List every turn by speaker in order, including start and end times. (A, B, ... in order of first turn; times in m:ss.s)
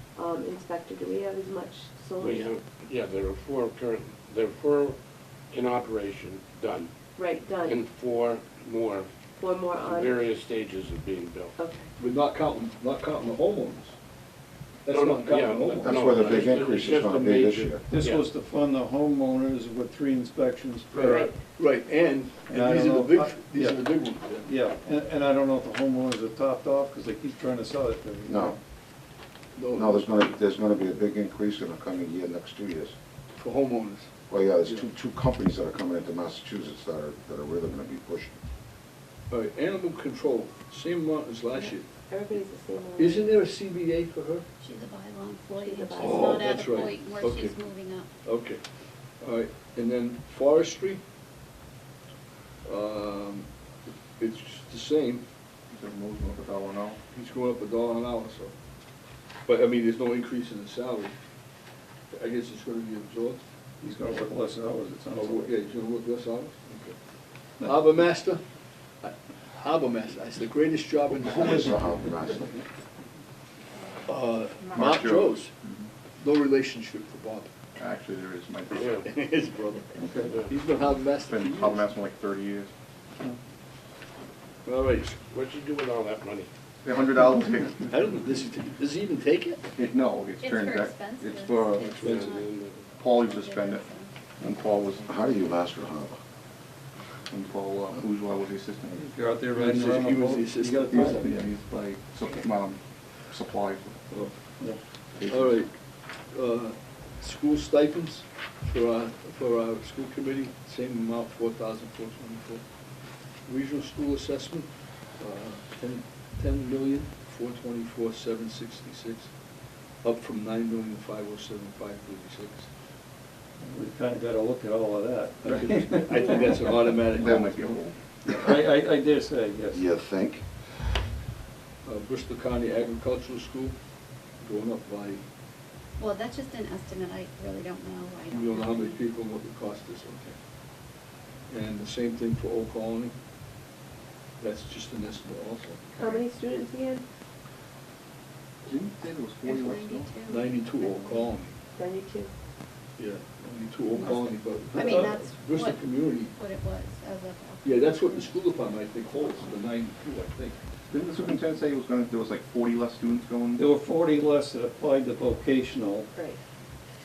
0:00.2-0:02.6 A
0:02.2-0:05.0 B
0:05.5-0:06.9 B
0:07.2-0:07.8 A
0:07.6-0:09.1 B
0:09.4-0:10.2 A
0:09.8-0:11.5 B
0:11.6-0:11.9 A
0:12.0-0:13.9 C
0:14.9-0:16.4 C
0:14.9-0:18.3 B
0:15.8-0:17.8 D
0:17.9-0:21.4 E
0:20.9-0:21.3 A
0:21.6-0:24.5 C
0:22.5-0:28.6 E
0:28.3-0:28.5 D
0:29.6-0:30.3 C
0:29.7-0:32.9 D
0:33.3-0:34.1 C
0:34.3-0:38.4 D
0:39.3-0:41.8 C
0:41.5-0:43.3 A
0:43.0-0:44.4 C
0:44.6-0:48.1 F
0:45.6-0:46.6 A
0:46.0-0:47.6 C
0:48.2-0:48.6 C
0:49.2-0:51.0 C
0:52.6-0:53.5 C
0:54.2-0:55.2 C
0:55.7-0:57.0 G
0:57.1-0:58.5 C
0:59.4-1:01.1 C
1:02.1-1:03.4 C
1:03.8-1:05.5 E
1:05.1-1:07.0 C
1:07.6-1:08.4 C
1:09.0-1:11.9 C
1:11.2-1:12.6 D
1:14.1-1:15.5 C
1:14.7-1:15.8 G
1:16.2-1:17.5 C
1:17.8-1:19.0 G
1:18.7-1:21.9 C
1:18.7-1:19.0 B
1:20.0-1:20.3 E
1:21.2-1:22.7 G
1:24.6-1:25.2 C
1:25.3-1:26.5 B
1:26.8-1:27.9 G
1:27.8-1:29.6 C
1:29.7-1:32.0 G
1:30.4-1:32.5 F
1:31.8-1:32.3 C
1:32.0-1:32.9 B
1:33.0-1:33.8 G
1:33.1-1:34.1 F
1:34.4-1:35.1 G
1:35.0-1:36.2 D
1:37.3-1:39.0 G
1:38.9-1:41.4 E
1:39.5-1:41.3 C
1:40.7-1:44.1 G
1:45.2-1:45.5 G
1:45.3-1:45.7 C
1:46.3-1:52.6 C
1:53.4-1:59.3 C
2:00.0-2:02.7 C
2:03.6-2:07.4 E
2:05.4-2:07.8 C
2:07.1-2:07.9 G
2:08.3-2:09.8 E
2:09.7-2:10.4 D
2:11.8-2:13.8 C
2:14.4-2:15.2 C
2:16.0-2:19.0 F
2:18.3-2:20.4 C
2:21.5-2:23.1 C
2:24.4-2:26.0 C
2:26.0-2:27.0 A
2:28.6-2:30.1 G
2:29.4-2:31.3 F
2:30.2-2:31.6 C
2:31.8-2:32.3 A
2:33.0-2:36.3 C
2:34.0-2:38.4 F
2:37.6-2:40.6 C
2:40.9-2:43.6 G
2:43.6-2:46.1 E
2:46.1-2:46.4 A